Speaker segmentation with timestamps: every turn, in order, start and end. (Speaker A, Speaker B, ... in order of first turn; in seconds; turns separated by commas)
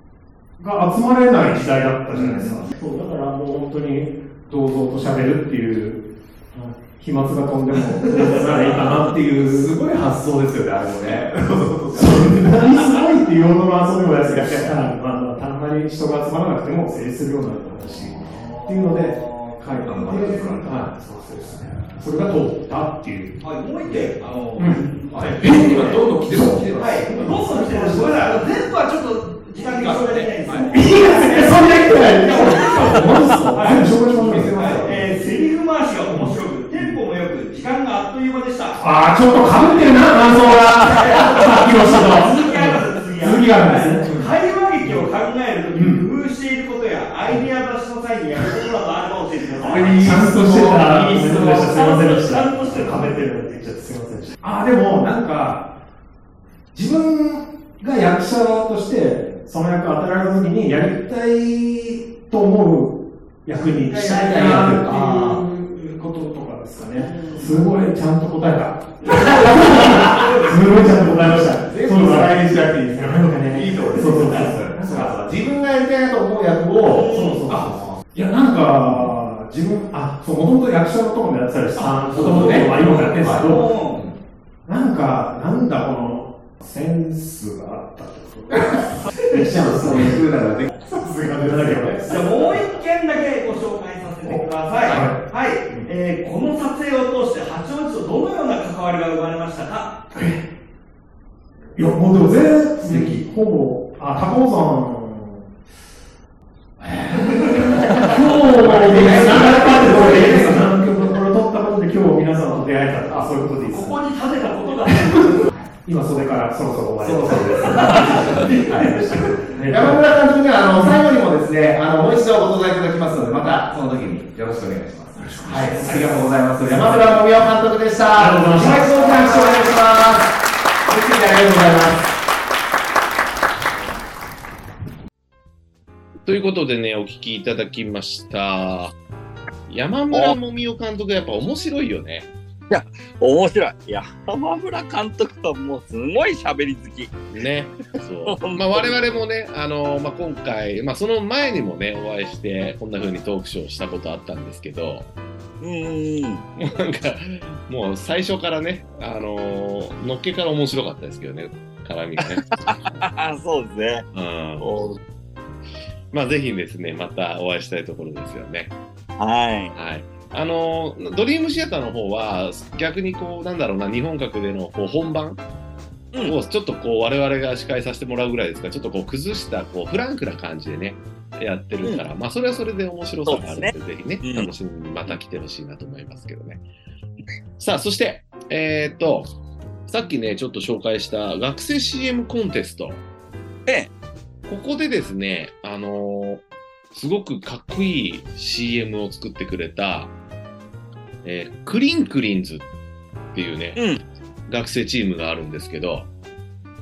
Speaker A: 0.6-9.7, Speaker B: 2.1-2.7, Speaker B: 7.8-12.8, Speaker A: 11.9-23.3, Speaker B: 14.2-14.9, Speaker B: 18.2-22.3, Speaker C: 23.4-26.0, Speaker B: 23.9-28.8, Speaker A: 24.6-24.9, Speaker A: 25.4-26.6, Speaker C: 26.7-39.9, Speaker B: 29.5-30.7, Speaker A: 30.7-35.2, Speaker B: 31.9-33.1, Speaker B: 33.6-35.1, Speaker A: 36.1-37.0, Speaker A: 38.8-45.1, Speaker C: 40.8-50.2, Speaker A: 45.7-46.1, Speaker B: 49.6-51.8, Speaker A: 49.7-55.6, Speaker C: 51.5-53.2, Speaker A: 56.7-75.1, Speaker B: 63.5-65.4, Speaker B: 67.0-67.7, Speaker B: 69.1-78.0, Speaker C: 70.0-70.3, Speaker C: 74.1-74.5, Speaker C: 76.8-77.7, Speaker A: 76.9-83.7, Speaker C: 81.8-84.0, Speaker B: 82.1-84.2, Speaker A: 84.7-90.2, Speaker B: 88.5-92.0, Speaker A: 90.8-92.6, Speaker C: 92.0-99.9, Speaker A: 94.9-95.9, Speaker A: 100.1-100.4, Speaker A: 101.8-105.5, Speaker B: 102.8-103.2, Speaker B: 106.8-111.2, Speaker A: 107.6-114.0, Speaker C: 109.4-109.7, Speaker B: 113.1-113.4, Speaker C: 113.7-115.5, Speaker A: 115.8-120.0, Speaker B: 117.0-130.3, Speaker C: 117.6-119.0, Speaker A: 125.5-125.9, Speaker C: 125.8-126.2, Speaker A: 128.2-129.5, Speaker C: 129.4-129.7, Speaker B: 130.8-132.1, Speaker D: 136.3-138.9, Speaker D: 139.7-142.3, Speaker E: 140.1-140.4, Speaker E: 142.7-147.2, Speaker D: 147.3-155.1, Speaker E: 148.3-149.0, Speaker E: 155.6-156.4, Speaker D: 156.6-163.1, Speaker E: 162.2-164.1, Speaker D: 164.1-164.7, Speaker E: 164.6-165.0, Speaker D: 166.1-168.8, Speaker E: 169.2-169.8, Speaker D: 169.8-175.4, Speaker D: 176.2-186.7, Speaker E: 183.3-184.5, Speaker D: 187.6-189.3, Speaker D: 189.9-193.0, Speaker D: 194.5-200.1, Speaker D: 201.2-202.7, Speaker D: 203.3-203.8, Speaker E: 203.8-204.0, Speaker D: 204.5-206.1